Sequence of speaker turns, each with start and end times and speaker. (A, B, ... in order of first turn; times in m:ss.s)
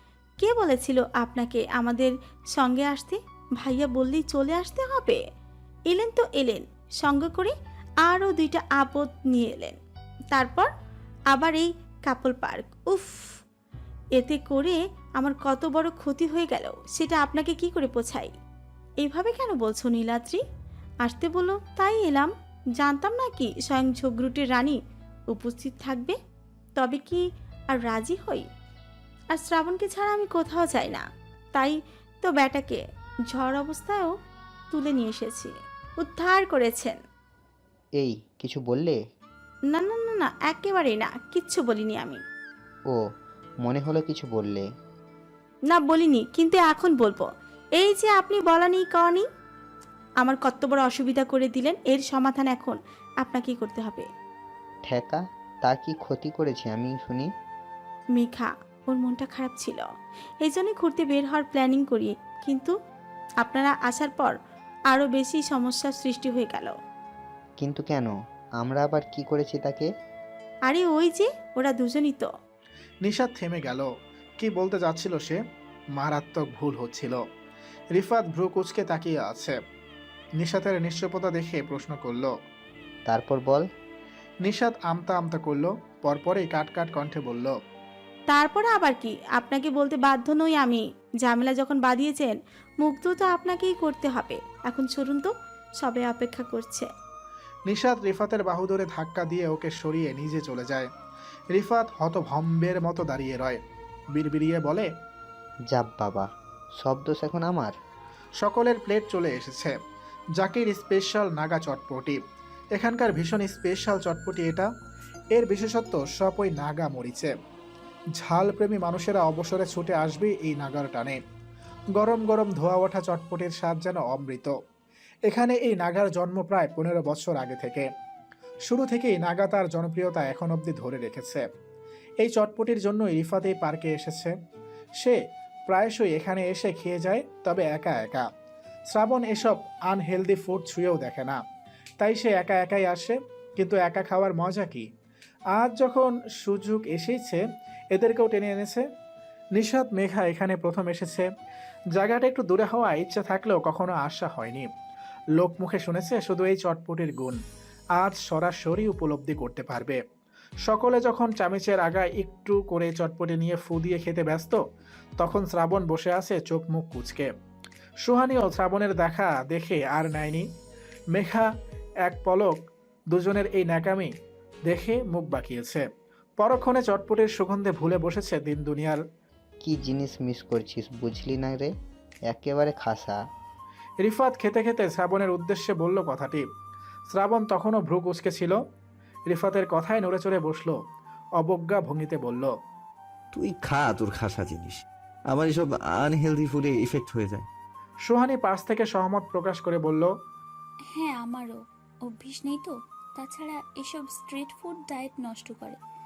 0:00.4-0:05.2 A
0:05.9-0:07.5 A
0:08.0-0:09.8 A
0:10.3-0:10.7 A
0:11.3-0:13.1 A
0:14.2-0:18.3 A
0:19.0-0:20.4 A
0:21.0-0:24.8 A
0:25.3-0:26.2 A
0:26.8-0:28.5 A
0:29.3-0:34.1 A
0:34.7-0:37.0 A
0:38.0-0:39.0 B
0:39.7-0:42.2 A
0:43.6-0:44.6 B
0:45.7-0:49.2 A
0:50.2-0:54.1 A
0:54.9-0:57.3 B
0:58.1-0:59.8 A
1:00.4-1:02.8 A
1:03.4-1:04.4 A
1:04.9-1:06.8 A
1:07.6-1:09.9 B
1:10.7-1:12.3 A
1:13.0-1:13.9 C
1:14.4-1:15.4 C
1:16.0-1:17.2 C
1:18.0-1:19.6 C
1:20.4-1:22.3 C
1:23.1-1:23.6 B
1:24.4-1:27.5 C
1:28.3-1:36.9 A
1:37.7-1:40.9 C
1:41.5-1:43.6 C
1:44.1-1:44.9 C
1:45.7-1:46.3 B
1:46.8-1:47.8 B
1:48.4-1:49.7 C
1:50.4-1:52.2 C
1:52.8-1:54.7 C
1:55.4-1:57.3 C
1:58.2-2:01.2 C
2:02.0-2:04.5 C
2:05.3-2:07.9 C
2:08.7-2:11.4 C
2:12.2-2:14.3 C
2:15.0-2:18.2 C
2:18.9-2:21.4 C
2:22.0-2:24.9 C
2:25.5-2:27.4 C
2:27.9-2:28.8 C
2:29.6-2:31.2 C
2:32.0-2:34.7 C
2:35.4-2:37.4 C
2:38.0-2:40.0 C
2:40.6-2:44.6 C
2:45.2-2:47.3 C
2:48.0-2:50.4 C
2:51.1-2:51.5 C
2:52.0-2:52.6 C
2:53.1-2:54.1 C
2:54.7-2:55.8 C
2:56.4-2:59.0 C
2:59.6-3:01.7 B
3:02.3-3:03.2 B
3:04.0-3:06.4 C
3:07.1-3:08.6 C
3:09.3-3:10.8 C
3:11.4-3:12.5 C
3:13.3-3:17.5 D
3:18.0-3:20.1 C
3:20.9-3:25.8 E